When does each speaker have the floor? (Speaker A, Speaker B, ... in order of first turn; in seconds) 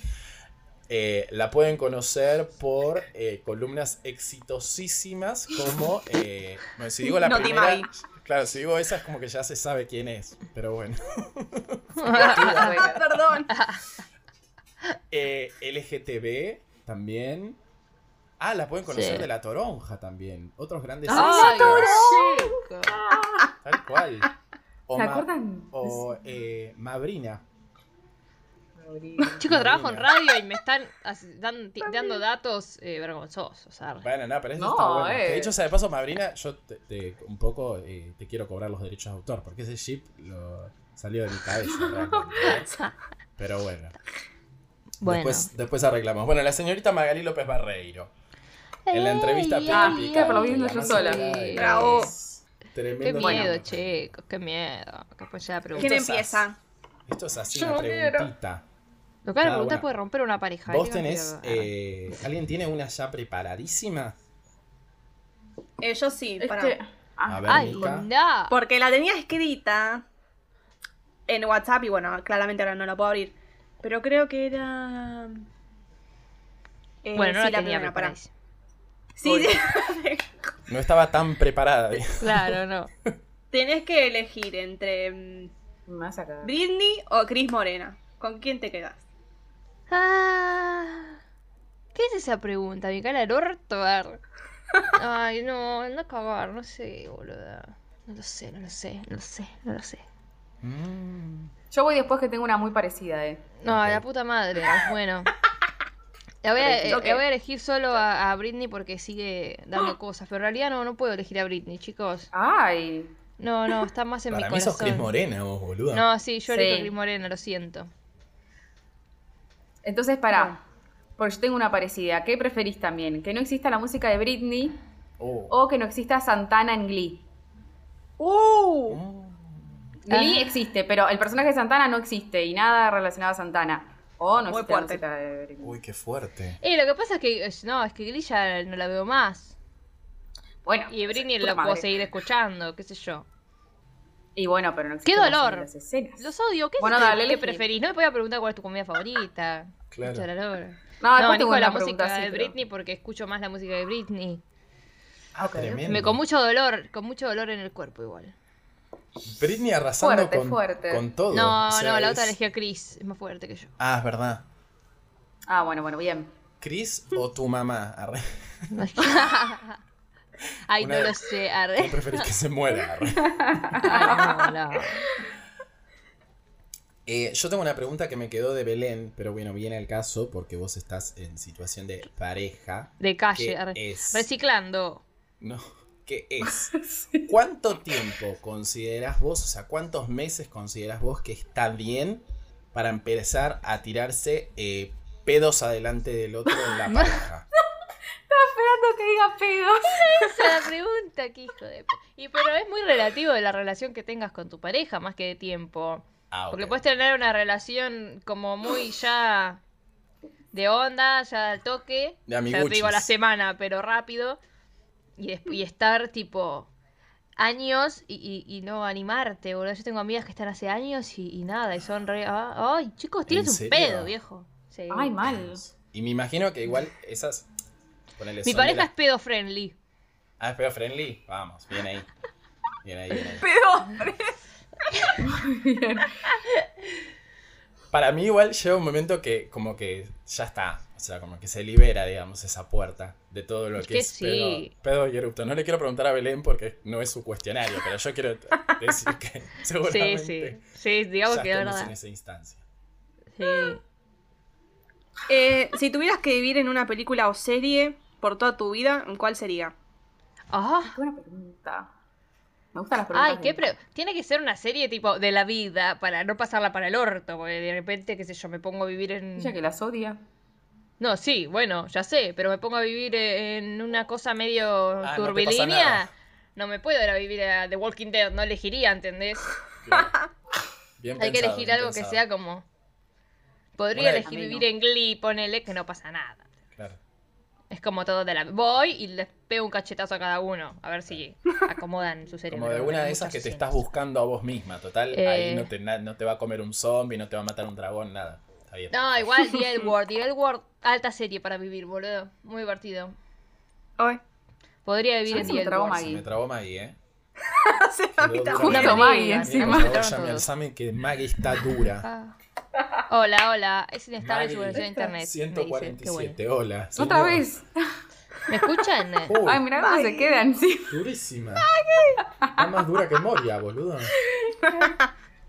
Speaker A: 0.9-12.9, 15.1-17.6, 18.4-21.9, 23.6-24.3, 24.9-27.4, 29.4-30.1, 34.0-42.8, 43.4-44.0, 45.0-48.1, 48.9-54.0, 55.7-56.5, 57.1-58.6, 59.4-59.9, 60.6-64.2, 67.3-68.1, 80.7-82.5, 100.6-101.5, 103.6-104.0, 114.3-116.0, 125.2-125.5, 128.9-129.8, 135.6-136.6, 149.9-150.3, 155.3-156.2, 159.2-162.3, 163.8-164.4, 166.6-168.7, 170.8-173.9, 177.1-184.3, 185.4-197.4, 206.3-206.8, 212.3-213.1, 223.3-224.1, 225.2-227.5, 228.2-228.9, 230.4-232.1, 232.8-233.5, 237.9-250.6, 251.2-252.6, 275.0-276.1, 279.8-280.2, 281.0-282.2, 283.9-284.3, 292.5-299.3, 305.4-307.0, 308.2-312.1, 314.2-317.5, 319.2-319.6, 320.9-321.7, 322.5-324.2
Speaker B: 7.2-7.9, 12.2-13.6, 21.2-22.5, 51.5-52.1, 55.7-56.6, 57.5-58.2, 65.8-66.8, 68.5-70.0, 71.3-75.4, 77.0-78.1, 79.2-80.3, 83.5-85.5, 86.4-89.0, 106.6-107.2, 128.2-129.0, 134.5-135.0, 233.4-234.3, 255.3-259.7, 307.5-308.9, 319.8-320.4, 321.6-322.2, 324.6-324.9
Speaker C: 11.9-12.9, 13.5-13.8, 18.9-19.3, 21.1-23.0, 29.4-34.0, 45.0-45.5, 48.9-52.1, 53.0-56.0, 59.2-61.7, 67.5-68.5, 77.1-78.3, 82.2-82.9, 89.9-91.2, 91.9-94.2, 94.9-100.0, 103.6-105.3, 106.4-112.3, 113.4-115.1, 115.9-117.9, 130.1-130.5, 136.6-139.5, 140.9-143.2, 145.0-154.4, 155.8-158.3, 161.3-163.7, 168.7-169.8, 170.7-172.3, 173.8-175.1, 183.0-185.0, 199.9-209.6, 210.5-214.4, 215.2-216.7, 217.4-225.2, 228.4-229.8, 234.9-235.2, 243.8-244.7, 249.8-251.9, 253.3-253.8, 260.5-260.9, 263.1-269.5, 271.0-279.5, 281.2-282.6, 283.8-286.5, 287.7-293.8, 295.1-295.7, 298.9-303.1, 304.8-306.0, 308.7-310.5, 312.0-312.4, 313.1-316.4, 318.5-319.4
Speaker D: 12.4-13.0, 21.1-22.3, 24.9-26.1, 28.8-29.4, 34.6-35.5, 41.7-42.5, 49.7-51.4, 53.2-53.5, 57.6-57.9, 66.4-68.0, 79.2-79.5, 85.9-86.5, 101.7-103.5, 112.3-113.1, 116.5-116.9, 119.8-120.6, 121.2-124.8, 125.5-127.2, 130.1-135.8, 140.6-142.1, 144.3-146.3, 146.8-147.6, 151.0-152.5, 155.4-155.8, 160.0-161.1, 165.5-166.3, 173.2-174.5, 186.8-187.2, 196.7-197.1, 198.3-200.5, 224.9-225.6, 235.2-236.2, 260.8-261.9, 262.7-263.7, 269.4-270.2, 284.0-284.6, 305.3-306.2, 308.6-310.0, 314.7-315.1, 316.9-317.9, 319.3-321.0, 322.2-322.6, 324.3-324.9